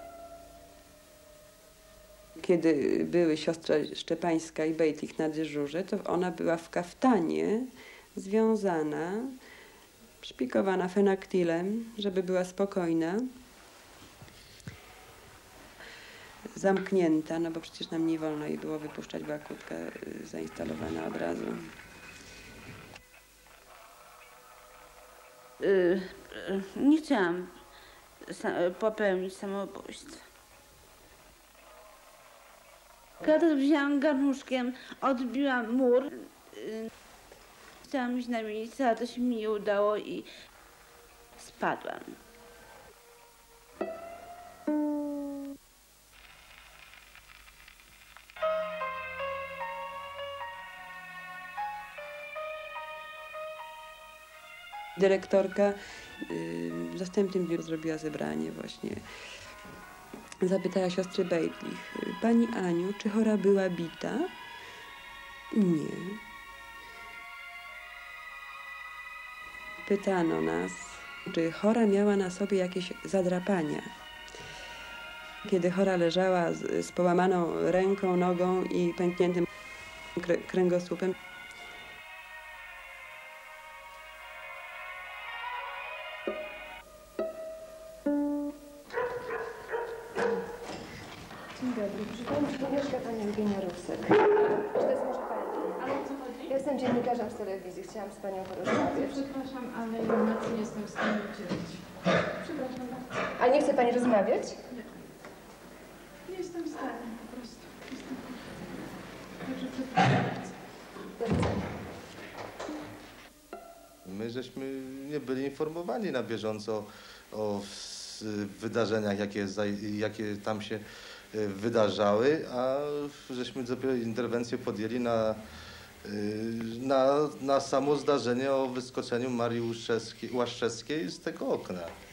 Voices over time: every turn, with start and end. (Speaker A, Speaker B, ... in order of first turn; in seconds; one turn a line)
Speaker A: 2.4-9.3
Speaker A: 10.2-13.3
Speaker A: 16.5-21.7
Speaker B: 25.6-27.5
Speaker B: 28.3-30.2
Speaker B: 33.2-36.9
Speaker B: 37.8-40.3
Speaker B: 41.4-42.1
Speaker A: 55.0-59.0
Speaker A: 60.4-64.3
Speaker A: 65.5-66.2
Speaker A: 69.8-73.9
Speaker A: 75.4-79.5
Speaker A: 80.2-81.1
Speaker C: 91.6-99.2
Speaker D: 99.9-101.0
Speaker D: 102.5-103.0
Speaker C: 103.4-104.6
Speaker D: 106.3-107.5
Speaker C: 111.2-111.7
Speaker E: 114.0-125.4
Speaker E: 126.0-131.9